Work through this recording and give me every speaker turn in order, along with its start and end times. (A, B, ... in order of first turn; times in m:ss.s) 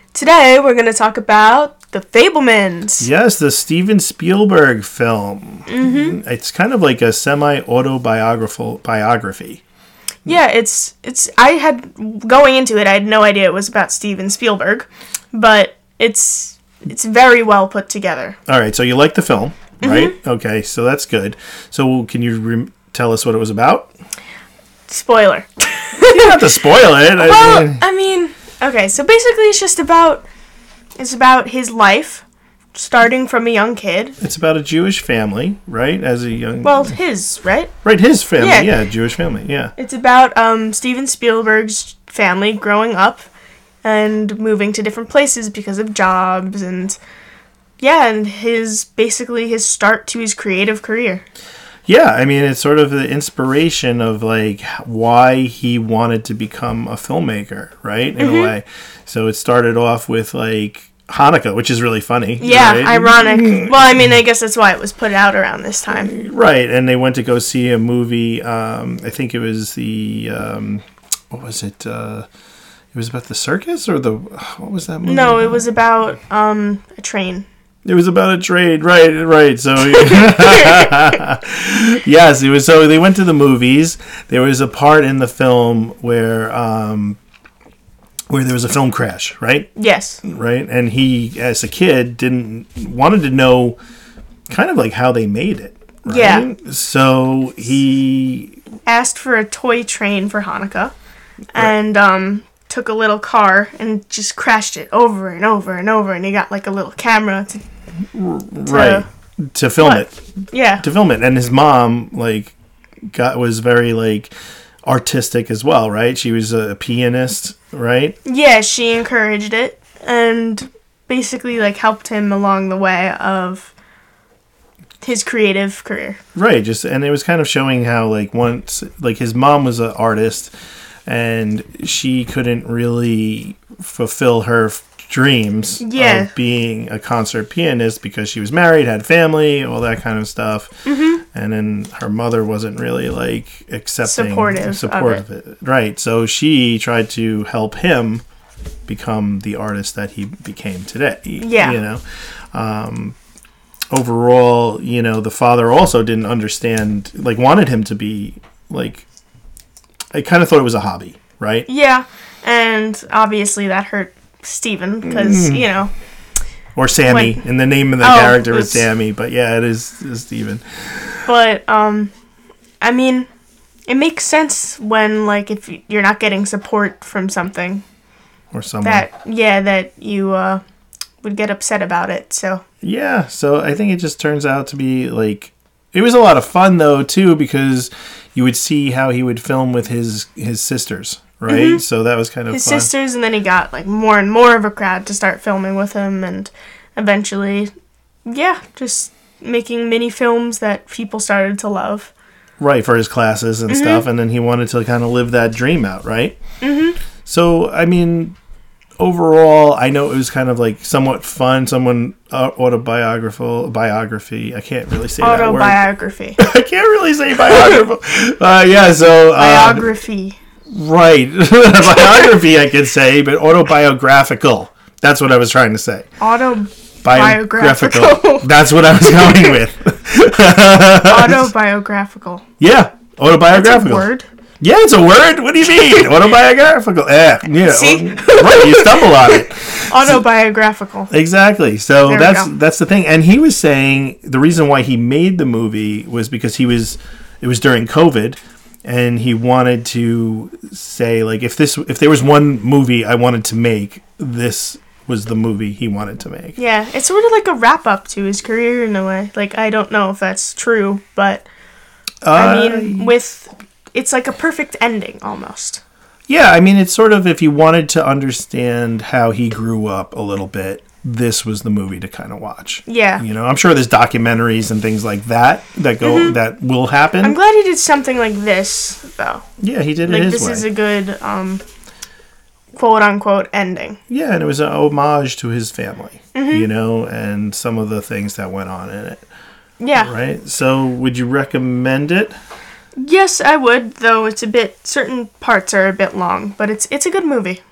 0:00.1-0:03.1 A
0:03.0-0:09.6 B
0:05.7-0:06.2 A
0:10.2-0:18.4 A
0:18.5-0:23.9 B
0:19.8-0:20.2 A
0:24.9-0:26.4 A
0:26.0-0:27.8 B
0:27.1-0:30.3 A
0:31.0-0:34.2 A
0:34.2-0:36.9 B
0:36.6-0:37.7 A
0:37.8-0:39.7 B
0:38.4-0:38.8 A
0:39.8-0:43.3 A
0:43.8-0:47.0 A
0:47.8-0:51.2 A
0:51.8-1:04.1 B
0:58.2-0:58.5 A
1:02.4-1:06.1 A
1:05.9-1:12.3 B
1:12.9-1:15.7 B
1:15.0-1:17.5 A
1:17.8-1:27.2 B
1:20.0-1:21.0 A
1:28.3-1:29.7 B
1:29.8-1:30.2 A
1:30.2-1:33.8 B
1:34.5-1:38.6 B
1:36.0-1:36.5 A
1:38.8-1:40.9 A
1:41.5-1:47.6 A
1:48.1-1:50.2 B
1:48.6-1:49.1 A
1:49.8-1:50.8 A
1:50.8-1:52.5 B
1:53.1-1:54.3 B
1:54.8-1:58.2 B
1:58.2-2:03.7 A
2:05.0-2:06.2 A
2:06.3-2:10.5 B
2:11.0-2:28.2 B
2:15.8-2:16.3 A
2:20.8-2:21.2 A
2:24.0-2:25.2 A
2:28.9-2:33.2 B
2:31.4-2:31.8 A
2:33.9-2:39.1 B
2:40.1-2:41.7 B
2:41.7-2:45.9 A
2:45.0-2:45.7 B
2:46.8-2:51.2 B
2:47.0-2:47.4 A
2:48.0-2:48.8 A
2:51.3-2:52.1 A
2:52.8-2:53.3 A
2:53.9-2:57.8 A
2:58.5-2:59.0 B
2:58.8-3:00.6 A
3:01.2-3:02.6 A
3:02.8-3:12.9 B
3:11.5-3:11.8 A
3:12.5-3:17.7 A
3:18.2-3:22.1 A
3:22.6-3:26.4 B
3:23.7-3:24.0 A
3:26.6-3:27.0 A
3:27.2-3:28.4 B
3:29.0-3:35.8 B
3:35.2-3:36.4 A
3:36.4-3:39.9 B
3:39.3-3:40.4 A
3:40.7-3:46.1 B
3:46.2-3:48.5 A
3:47.0-3:51.5 B
3:51.0-3:52.4 A
3:52.6-3:54.1 B
3:53.5-3:54.3 A
3:54.6-4:00.2 B
3:57.6-4:01.1 A
4:01.1-4:16.6 B
4:02.0-4:02.5 A
4:16.6-4:21.5 A
4:22.2-4:23.1 B
4:22.3-4:25.8 A
4:26.3-4:37.4 B
4:32.9-4:33.2 A
4:36.0-4:36.4 A
4:37.2-4:39.4 A
4:39.6-4:40.7 B
4:40.0-4:41.6 A
4:42.7-4:44.0 A
4:44.1-4:49.2 B
4:46.3-4:46.7 A
4:49.8-4:50.1 A
4:50.0-4:52.3 B
4:53.0-4:57.6 A